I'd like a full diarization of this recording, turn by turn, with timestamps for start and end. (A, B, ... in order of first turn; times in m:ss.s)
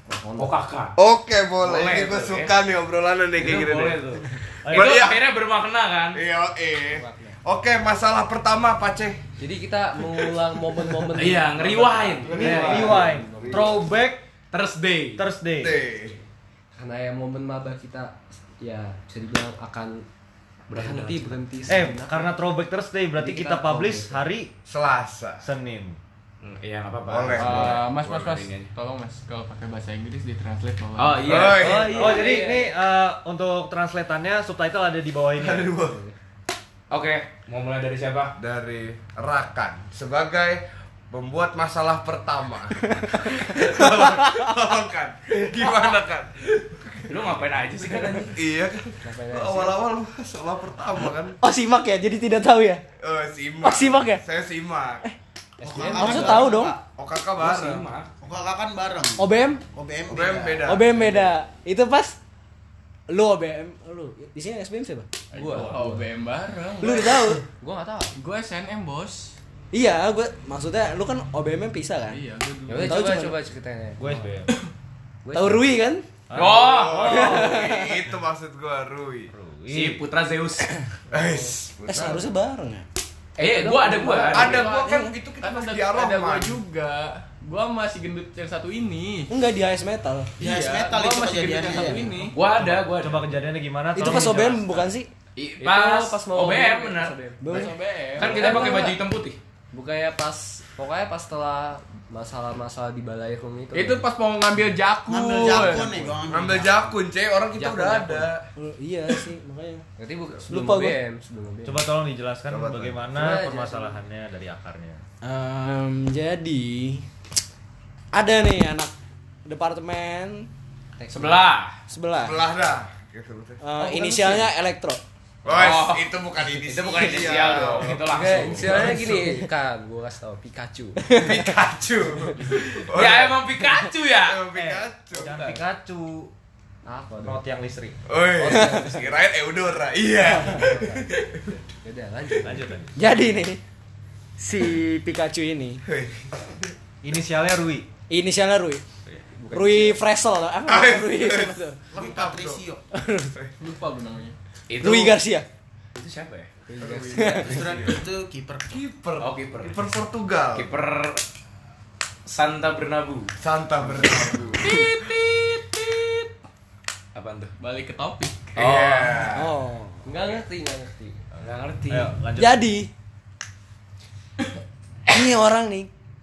0:00.1-0:00.5 A
0:00.4-0:00.9 B
0:01.0-0:05.2 C
0:01.6-0:02.5 B
0:03.4-0:06.2 B
0:04.6-0:05.0 D
0:06.1-0:09.2 C
0:06.9-0:07.4 A
0:09.4-0:13.9 A
0:10.1-0:11.1 C
0:11.1-0:13.0 B
0:12.2-0:13.8 C
0:12.3-0:14.2 D
0:14.5-0:15.2 B
0:15.2-0:15.8 D
0:15.6-0:16.2 C
0:16.7-0:20.1 A
0:20.7-0:21.4 B
0:20.7-0:22.3 A
0:21.7-0:24.5 D
0:23.2-0:24.1 B
0:24.7-0:25.5 C
0:25.4-0:26.0 D
0:26.4-0:28.7 B
0:27.1-0:27.8 C
0:27.3-0:31.5 E
0:31.0-0:31.8 B
0:31.2-0:32.3 C
0:31.5-0:32.7 A
0:31.6-0:35.7 D
0:35.4-0:36.0 C
0:35.8-0:36.1 A
0:36.9-0:38.3 B
0:38.4-0:47.2 C
0:47.1-0:48.4 B
0:48.0-0:51.4 C
0:49.0-0:49.8 A
0:51.4-0:52.8 F
0:53.0-0:55.0 C
0:53.6-0:54.2 F
0:55.6-0:56.8 G
0:55.6-0:56.4 A
0:55.7-0:56.4 B
0:55.9-0:56.8 F
0:56.2-0:57.8 C
0:57.4-0:58.1 B
0:58.2-1:00.7 G
0:59.2-0:59.6 F
1:00.1-1:01.2 C
1:00.6-1:02.2 F
1:03.1-1:05.1 F
1:05.3-1:06.1 A
1:05.3-1:07.3 E
1:06.8-1:07.4 F
1:07.6-1:08.1 A
1:08.2-1:09.4 E
1:09.7-1:12.2 F
1:12.1-1:13.1 E
1:12.7-1:14.3 A
1:12.8-1:13.4 F
1:14.0-1:14.5 D
1:15.2-1:15.7 A
1:15.3-1:16.0 F
1:16.3-1:17.6 D
1:16.3-1:17.2 B
1:16.5-1:19.3 C
1:17.0-1:18.1 F
1:19.3-1:20.0 D
1:19.7-1:20.7 B
1:21.1-1:22.2 C
1:21.2-1:21.5 A
1:21.8-1:22.8 F
1:23.4-1:24.6 B
1:23.4-1:24.9 A
1:24.3-1:26.6 C
1:24.3-1:29.3 E
1:29.3-1:30.3 F
1:30.4-1:32.3 G
1:30.4-1:32.4 E
1:32.3-1:33.4 B
1:32.5-1:34.9 D
1:33.9-1:35.1 F
1:35.6-1:37.2 B
1:35.6-1:37.6 A
1:37.4-1:37.8 F
1:37.5-1:38.8 E
1:38.2-1:39.0 A
1:38.2-1:39.4 B
1:39.7-1:44.0 A
1:43.7-1:46.1 E
1:45.0-1:47.0 G
1:45.7-1:46.2 A
1:46.3-1:48.5 C
1:47.5-1:48.3 A
1:48.6-1:49.8 F
1:50.0-1:51.9 A
1:50.4-1:51.0 F
1:51.6-1:55.0 D
1:52.5-1:53.1 C
1:53.1-1:54.0 A
1:55.2-1:57.1 F
1:58.1-1:58.9 F
1:59.4-2:00.5 F
2:01.0-2:01.5 A
2:01.1-2:01.8 B
2:01.9-2:02.5 F
2:02.2-2:03.7 C
2:03.6-2:05.0 F
2:03.9-2:04.5 A
2:05.4-2:08.8 C
2:05.5-2:08.9 B
2:07.9-2:11.0 A
2:08.9-2:09.4 F
2:11.0-2:11.6 F
2:11.1-2:13.4 C
2:12.5-2:14.4 B
2:14.2-2:15.5 C
2:14.5-2:16.3 D
2:15.2-2:15.5 A
2:16.8-2:17.4 A
2:17.2-2:18.0 D
2:18.0-2:21.6 C
2:18.3-2:19.2 A
2:18.5-2:18.9 F
2:20.4-2:21.2 A
2:21.8-2:22.7 A
2:22.4-2:23.0 D
2:23.0-2:23.6 F
2:24.4-2:25.8 F
2:25.8-2:26.7 C
2:27.0-2:27.9 D
2:28.1-2:28.8 F
2:29.4-2:30.0 A
2:29.5-2:31.8 F
2:30.7-2:32.6 C
2:31.9-2:32.8 G
2:32.9-2:33.3 F
2:33.6-2:34.4 E
2:34.7-2:35.2 B
2:34.8-2:35.5 F
2:36.0-2:36.5 B
2:36.7-2:37.5 A
2:36.8-2:38.0 C
2:37.1-2:37.6 F
2:37.4-2:38.8 G
2:38.7-2:40.7 C
2:39.2-2:39.9 B
2:40.5-2:41.2 B
2:42.2-2:43.3 B
2:43.4-2:44.9 C
2:44.6-2:46.3 E
2:47.1-2:47.5 B
2:47.6-2:48.8 E
2:48.6-2:49.4 B
2:48.6-2:49.5 C
2:49.3-2:50.1 F
2:50.0-2:51.2 A
2:51.4-2:52.1 B
2:51.9-2:52.7 D
2:52.4-2:52.9 F
2:55.1-2:55.9 F